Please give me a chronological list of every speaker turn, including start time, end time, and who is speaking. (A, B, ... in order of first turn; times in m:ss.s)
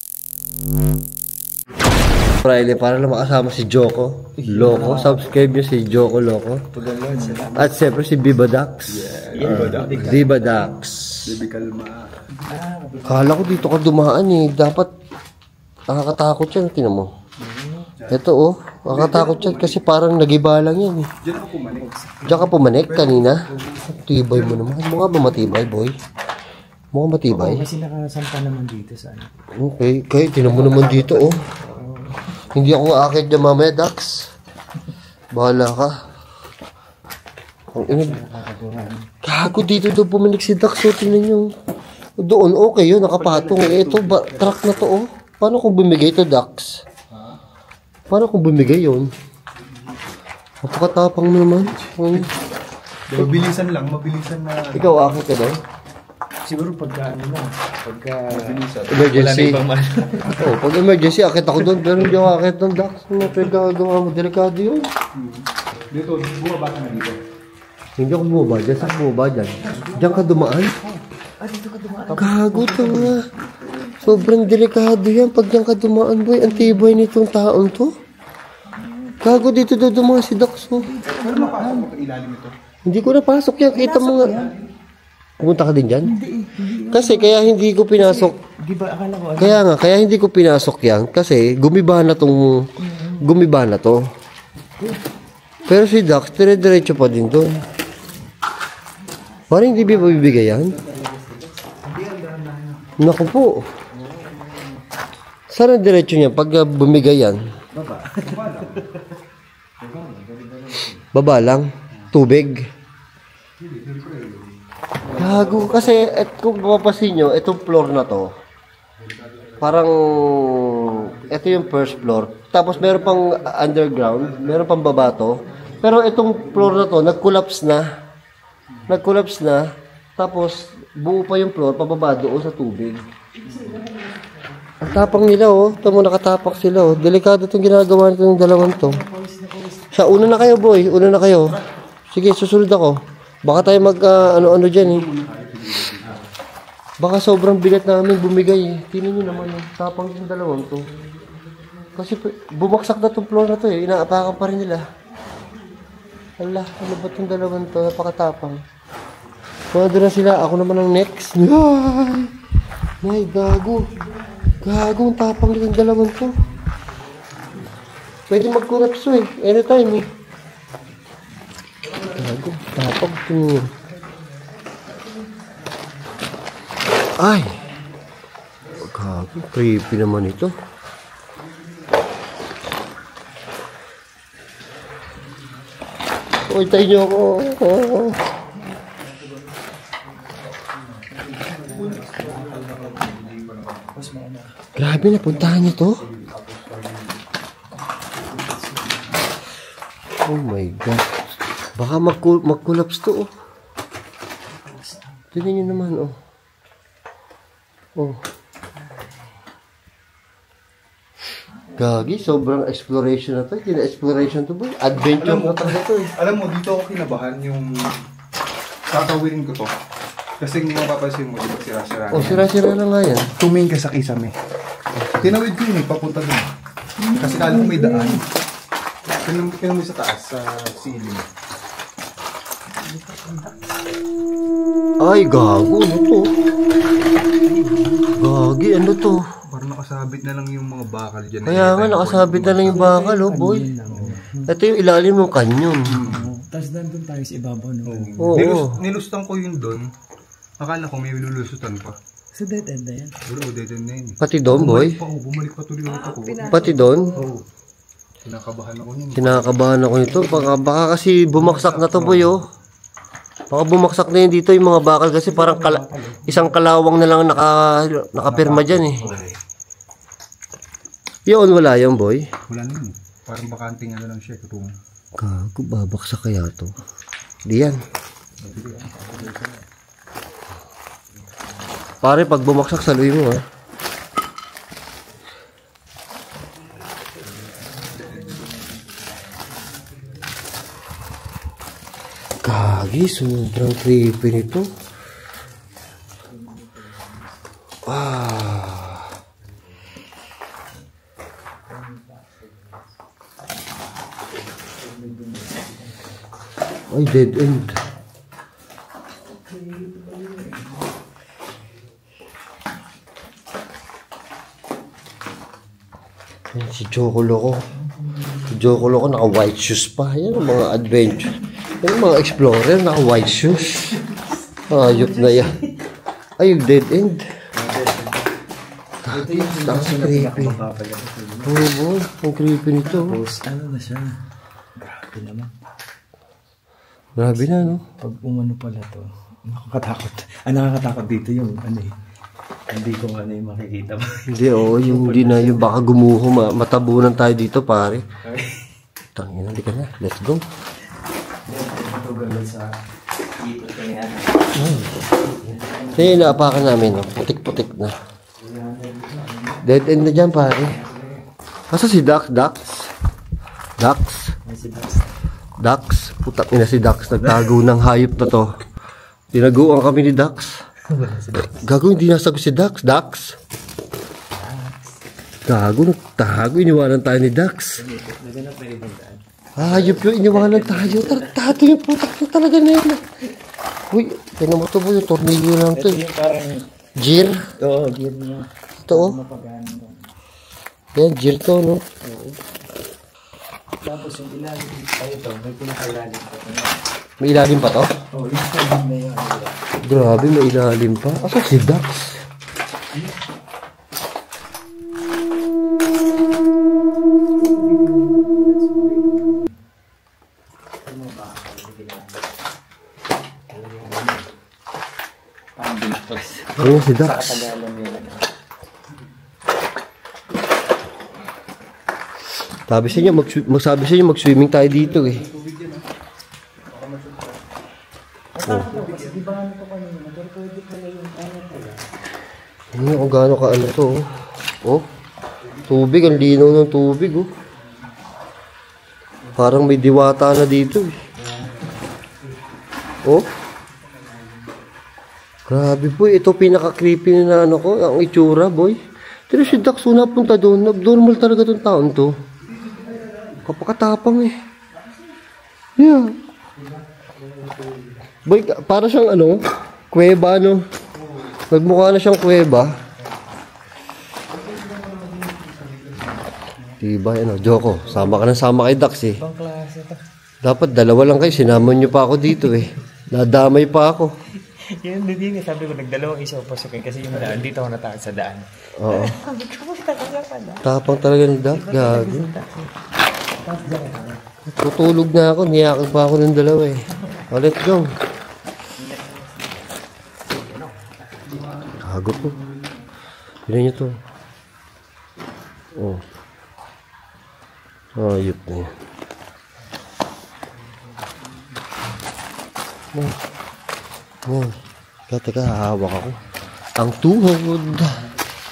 0:02.3-0:06.6 A
0:04.4-0:05.4 B
0:06.8-0:07.7 B
0:07.0-0:07.7 C
0:07.5-0:11.4 A
0:08.9-0:10.3 C
0:09.3-0:10.7 B
0:11.2-0:12.1 C
0:12.3-0:13.8 B
0:13.0-0:14.9 A
0:15.9-0:17.1 A
0:17.4-0:17.9 B
0:18.1-0:21.1 A
0:18.9-0:19.8 C
0:21.2-0:24.7 C
0:21.8-0:22.4 B
0:22.2-0:25.9 A
0:26.9-0:27.6 A
0:27.3-0:29.3 B
0:29.5-0:31.3 A
0:30.5-0:32.4 B
0:32.5-0:34.3 A
0:35.3-0:36.0 A
0:37.7-0:38.2 A
0:37.8-0:39.0 B
0:39.2-0:41.5 A
0:42.2-0:46.8 A
0:43.1-0:44.8 B
0:48.1-0:49.1 A
0:49.6-0:50.0 C
0:50.6-0:52.3 A
0:51.7-0:52.4 C
0:53.1-0:55.1 C
0:54.7-0:55.6 A
0:56.4-1:00.4 B
0:58.3-0:59.3 C
0:58.9-0:59.6 A
1:00.4-1:04.9 A
1:01.7-1:02.3 B
1:05.1-1:07.2 C
1:08.0-1:10.7 A
1:09.6-1:10.9 C
1:09.6-1:10.0 B
1:11.4-1:14.4 B
1:12.1-1:13.2 A
1:14.0-1:17.9 A
1:16.4-1:16.8 B
1:18.6-1:19.4 B
1:19.2-1:20.9 A
1:20.8-1:21.9 B
1:21.2-1:22.5 C
1:22.8-1:24.4 A
1:23.7-1:24.6 B
1:25.4-1:26.1 A
1:26.0-1:29.6 B
1:26.9-1:28.3 A
1:29.4-1:34.0 A
1:32.8-1:33.3 B
1:35.7-1:37.6 A
1:39.0-1:41.8 B
1:39.5-1:40.7 A
1:41.8-1:42.9 C
1:43.0-1:43.7 A
1:43.9-1:44.8 B
1:45.5-1:47.4 A
1:47.7-1:49.0 B
1:48.2-1:48.8 C
1:49.8-1:51.1 B
1:51.1-1:52.6 A
1:53.6-1:54.5 C
1:55.1-1:56.2 C
1:55.1-1:55.4 B
1:55.2-1:58.3 A
1:59.0-2:03.4 C
1:59.6-2:07.8 A
2:04.0-2:06.9 C
2:04.9-2:05.8 B
2:08.7-2:09.0 C
2:08.9-2:09.6 A
2:10.2-2:13.0 A
2:13.4-2:15.7 B
2:14.8-2:19.0 A
2:18.5-2:21.0 B
2:19.9-2:21.6 A
2:22.1-2:25.0 A
2:24.1-2:26.2 C
2:27.0-2:30.8 A
2:30.9-2:32.0 B
2:32.0-2:34.8 A
2:35.2-2:37.6 B
2:36.4-2:38.6 A
2:39.7-2:42.3 A
2:43.0-2:43.9 A
2:44.6-2:46.4 A
2:47.4-2:47.7 C
2:48.3-2:50.1 A
2:52.1-2:53.7 A
2:54.1-2:55.6 B
2:57.2-2:57.6 A
2:58.8-3:00.5 A
3:06.4-3:08.2 A
3:08.5-3:09.1 B
3:11.1-3:13.2 B
3:11.1-3:14.1 C
3:13.9-3:14.5 B
3:14.8-3:16.0 A
3:14.9-3:17.2 C
3:18.3-3:19.1 B
3:20.2-3:23.3 A
3:24.6-3:25.8 B
3:25.3-3:26.2 A
3:28.0-3:28.2 A
3:31.8-3:36.1 A
3:35.2-3:37.9 C
3:38.9-3:39.7 C
3:40.4-3:42.5 C
3:42.1-3:43.3 A
3:43.4-3:44.3 C
3:44.9-3:45.4 A
3:45.2-3:46.5 C
3:47.0-3:48.2 B
3:47.2-3:48.2 C
3:49.2-3:51.2 C
3:52.8-3:53.8 B
3:55.0-3:56.3 A
3:57.4-3:58.2 C
3:58.2-3:59.2 A
3:59.5-4:02.8 C
4:01.4-4:03.7 A
4:02.7-4:04.5 B
4:03.9-4:04.2 C
4:04.5-4:06.0 A
4:05.9-4:06.3 C
4:06.0-4:08.4 B
4:07.8-4:09.9 C
4:08.2-4:08.8 A
4:10.6-4:12.0 C
4:12.3-4:13.1 B
4:13.2-4:17.4 C
4:14.2-4:15.0 A
4:15.9-4:17.3 B
4:16.5-4:17.2 A
4:18.2-4:19.6 C
4:19.1-4:22.4 A
4:20.2-4:20.5 B
4:21.4-4:22.4 C
4:23.5-4:29.0 A
4:25.2-4:26.5 B
4:28.2-4:29.3 C
4:29.0-4:29.3 B
4:31.2-4:32.3 A
4:32.5-4:34.7 C
4:35.2-4:36.7 A
4:37.4-4:37.8 A
4:38.4-4:39.4 B
4:38.4-4:39.5 C
4:42.0-4:43.4 A
4:47.4-4:48.4 B
4:48.0-4:48.4 C
4:52.4-4:54.7 A
4:56.2-4:57.3 B
4:57.8-4:59.1 A
5:01.6-5:02.9 B
5:04.5-5:06.3 B
5:06.9-5:07.8 A
5:09.3-5:10.9 B
5:16.5-5:17.6 A
5:17.8-5:18.5 B
5:18.5-5:24.0 A
5:23.4-5:25.8 B
5:24.7-5:25.6 A
5:26.4-5:27.2 A
5:27.5-5:28.1 B
5:29.0-5:30.6 A
5:29.1-5:31.6 B
5:31.4-5:33.2 A
5:32.8-5:34.2 B
5:34.8-5:35.5 B
5:37.2-5:37.8 A
5:37.2-5:41.9 B
5:42.7-5:45.7 B
5:44.3-5:48.0 A
5:48.2-5:48.6 B
5:49.1-5:50.4 A
5:51.4-5:52.7 B
5:53.4-5:56.6 B
5:54.5-5:55.2 A
5:55.9-5:57.9 A
5:58.4-5:59.7 B
5:59.6-6:00.8 A
6:00.4-6:01.2 B
6:01.7-6:02.9 A
6:03.8-6:04.3 A
6:04.4-6:05.1 B
6:05.6-6:08.5 A
6:09.3-6:10.6 A
6:10.9-6:11.6 B
6:11.4-6:13.4 A
6:14.3-6:14.9 B
6:15.4-6:17.8 A
6:17.8-6:21.4 B
6:19.6-6:23.0 A
6:23.9-6:26.0 A
6:25.7-6:26.6 B
6:27.0-6:27.4 A
6:27.6-6:30.1 B
6:28.9-6:29.2 A
6:31.0-6:31.8 A
6:32.0-6:32.4 B
6:33.8-6:36.8 B
6:37.2-6:37.9 A
6:38.1-6:40.3 B
6:39.8-6:42.2 A
6:47.4-6:49.5 B
6:50.8-6:52.3 B
6:53.5-6:54.3 B
6:55.6-6:58.2 B
6:56.6-6:57.4 A
7:02.7-7:05.2 A
7:04.6-7:05.8 C
7:06.7-7:07.4 C
7:08.3-7:11.8 B
7:08.7-7:09.2 C
7:12.7-7:14.0 A
7:15.7-7:17.3 A
7:19.4-7:21.0 A
7:21.2-7:21.7 B
7:24.0-7:24.3 C
7:25.5-7:28.8 A
7:29.3-7:32.1 A
7:32.4-7:33.4 C
7:33.4-7:34.3 A
7:35.8-7:36.1 A
7:36.6-7:38.0 B
7:38.2-7:40.6 A
7:40.9-7:41.4 C
7:41.5-7:42.7 A
7:44.4-7:45.9 B
7:46.8-7:49.2 A
7:47.8-7:48.2 B
7:49.2-7:50.0 B
7:50.4-7:54.1 A
7:54.4-8:00.6 B
7:58.8-7:59.2 A
8:00.6-8:02.3 A
8:01.4-8:02.7 B
8:03.4-8:04.2 B
8:04.5-8:06.8 A
8:07.3-8:07.9 A
8:08.8-8:09.3 B
8:10.3-8:11.6 B
8:11.2-8:12.8 C
8:11.8-8:12.4 A
8:13.5-8:14.0 A
8:15.7-8:16.0 A
8:17.9-8:18.7 A
8:24.2-8:24.6 A
8:25.1-8:26.2 A
8:26.8-8:28.0 A